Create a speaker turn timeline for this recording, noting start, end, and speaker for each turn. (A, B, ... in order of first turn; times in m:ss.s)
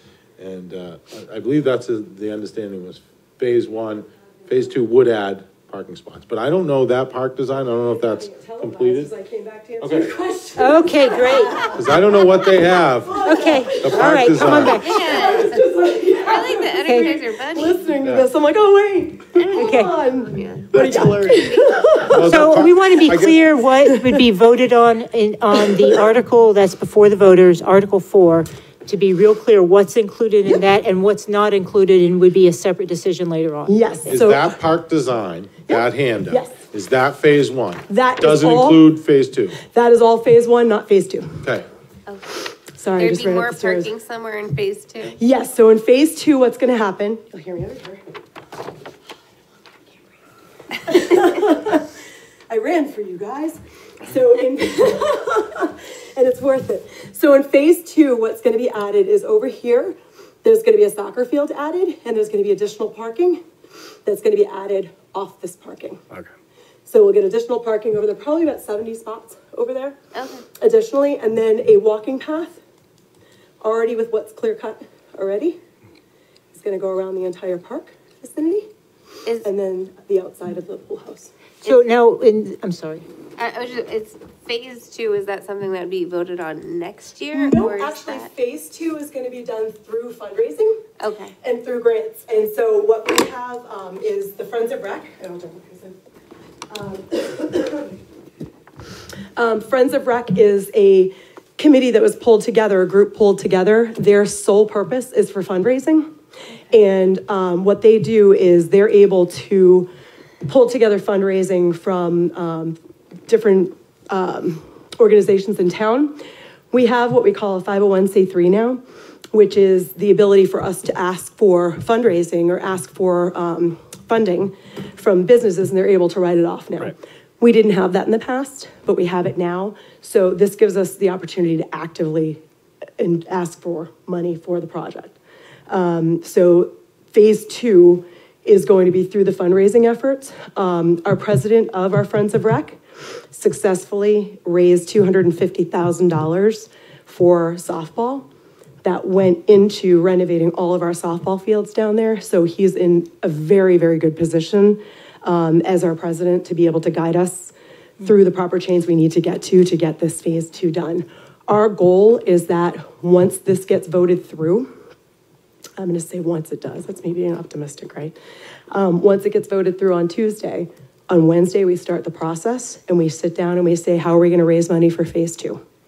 0:00.4-0:09.1 A
0:08.0-0:22.3 B
0:09.8-0:10.2 A
0:10.6-0:11.6 C
0:11.7-0:15.0 A
0:13.2-0:15.3 C
0:14.8-0:17.8 D
0:16.8-0:17.2 C
0:18.0-0:18.3 A
0:19.4-0:21.8 D
0:19.6-0:19.9 C
0:20.7-0:23.6 A
0:22.2-0:33.8 C
0:33.7-0:34.6 B
0:34.1-0:39.6 A
0:35.7-0:36.6 B
0:37.9-0:38.9 B
0:39.6-0:41.4 B
0:41.4-0:41.7 A
0:42.1-0:42.4 D
0:42.8-0:43.9 B
0:43.0-0:45.2 D
0:45.2-0:48.0 B
0:50.8-0:51.9 B
0:52.5-1:03.4 B
1:04.0-1:06.0 B
1:06.9-1:10.0 B
1:10.1-1:10.4 D
1:10.6-1:12.6 B
1:13.6-1:15.6 B
1:16.5-1:18.7 B
1:19.4-1:21.3 B
1:21.6-1:23.1 C
1:23.4-1:28.3 D
1:27.3-1:30.8 B
1:31.0-1:31.3 D
1:31.4-1:35.9 B
1:36.7-1:37.9 B
1:39.4-1:46.1 B
1:46.7-1:49.9 B
1:50.4-1:56.2 B
1:56.7-1:58.8 B
1:59.3-2:12.4 B
2:13.0-2:15.2 B
2:15.7-2:22.8 B
2:23.3-2:28.3 B
2:28.8-2:44.7 B
2:45.8-2:48.1 B
2:48.7-2:55.6 B